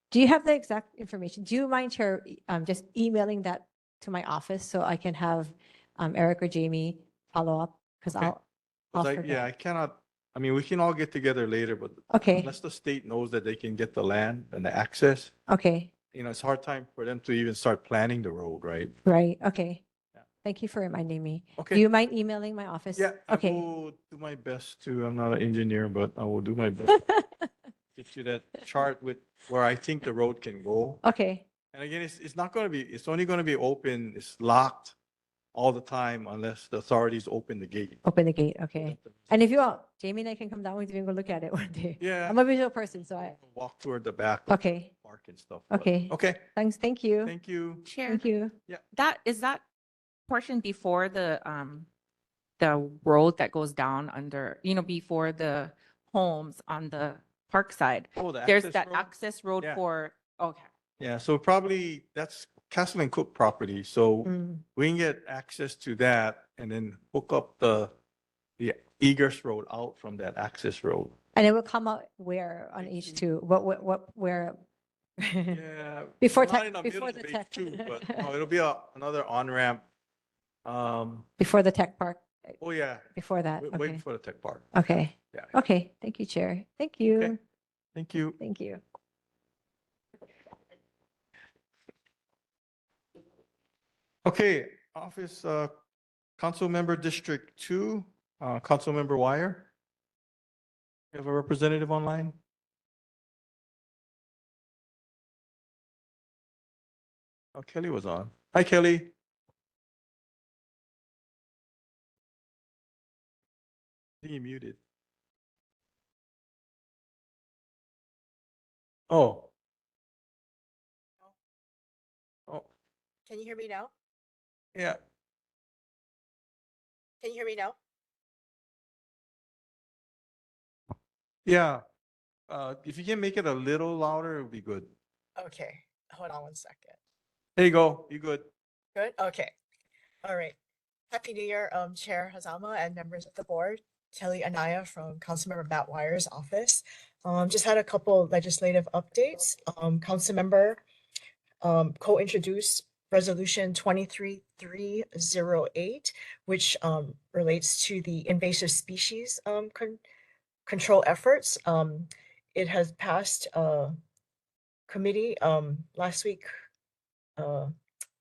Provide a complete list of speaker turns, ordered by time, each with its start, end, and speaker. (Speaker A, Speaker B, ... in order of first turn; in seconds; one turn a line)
Speaker A: 0.1-8.4
Speaker B: 8.9-15.3
Speaker A: 8.9-9.4
Speaker A: 12.1-12.5
Speaker A: 15.5-15.9
Speaker B: 16.1-19.0
Speaker A: 19.1-19.8
Speaker A: 20.4-23.6
Speaker B: 21.6-21.8
Speaker B: 23.0-27.1
Speaker A: 26.9-27.5
Speaker B: 27.9-31.0
Speaker A: 31.0-31.4
Speaker B: 31.7-35.0
Speaker B: 35.5-38.0
Speaker A: 38.0-43.4
Speaker B: 38.8-39.4
Speaker B: 42.0-42.4
Speaker B: 43.1-46.4
Speaker A: 44.5-44.9
Speaker A: 45.7-47.3
Speaker B: 47.2-47.9
Speaker C: 47.9-48.2
Speaker A: 48.1-48.5
Speaker C: 48.9-49.6
Speaker C: 50.3-51.9
Speaker C: 52.6-60.7
Speaker B: 58.2-59.8
Speaker B: 61.0-67.9
Speaker A: 64.2-64.6
Speaker B: 68.6-71.2
Speaker A: 71.3-74.6
Speaker B: 72.8-73.2
Speaker A: 75.2-75.6
Speaker B: 75.5-79.8
Speaker A: 76.2-78.3
Speaker B: 80.7-81.3
Speaker A: 81.4-82.5
Speaker B: 82.6-84.8
Speaker A: 83.2-84.0
Speaker A: 84.7-87.4
Speaker B: 88.0-88.4
Speaker A: 88.4-88.8
Speaker B: 94.2-95.7
Speaker B: 96.4-99.7
Speaker B: 101.1-102.4
Speaker B: 107.5-109.1
Speaker B: 114.2-114.8
Speaker B: 119.1-119.5
Speaker D: 123.3-123.9
Speaker D: 127.2-127.8
Speaker B: 131.5-131.8
Speaker B: 132.5-134.9
Speaker D: 135.4-136.9
Speaker B: 137.6-138.5
Speaker D: 138.9-139.5
Speaker D: 140.2-140.6
Speaker D: 141.1-150.8
Speaker D: 151.6-160.0
Speaker D: 160.7-163.9
Speaker D: 164.9-166.5
Speaker D: 167.4-167.7